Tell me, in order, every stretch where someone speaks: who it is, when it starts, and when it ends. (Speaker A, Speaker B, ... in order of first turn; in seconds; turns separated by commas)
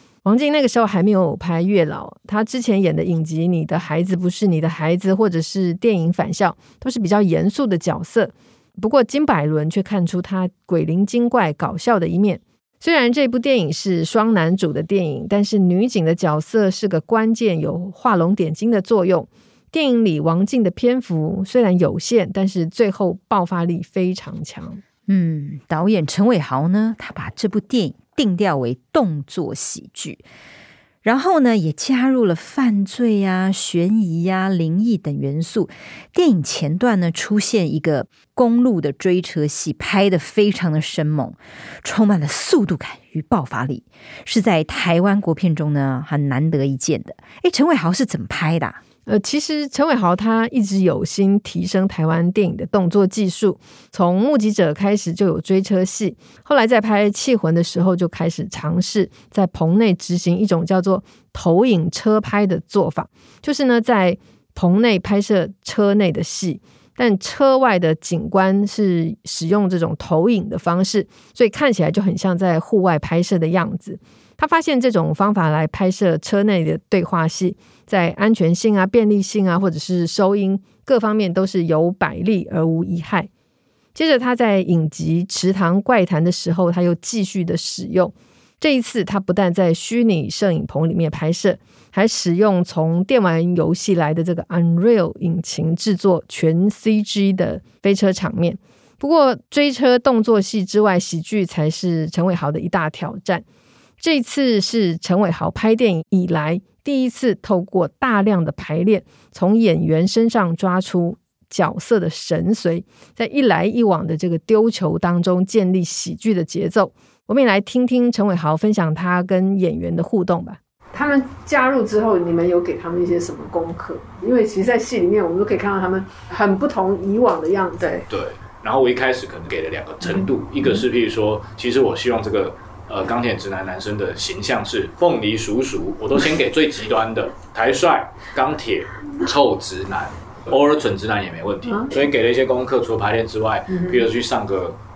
Speaker A: 0.2-24.8, Speaker B: 25.1-30.2, Speaker B: 31.0-48.8, Speaker A: 49.0-83.3, Speaker A: 83.9-103.4, Speaker A: 104.0-120.6, Speaker C: 120.9-128.1, Speaker D: 128.1-144.8, Speaker C: 130.1-130.8, Speaker C: 141.7-141.9, Speaker C: 143.7-144.1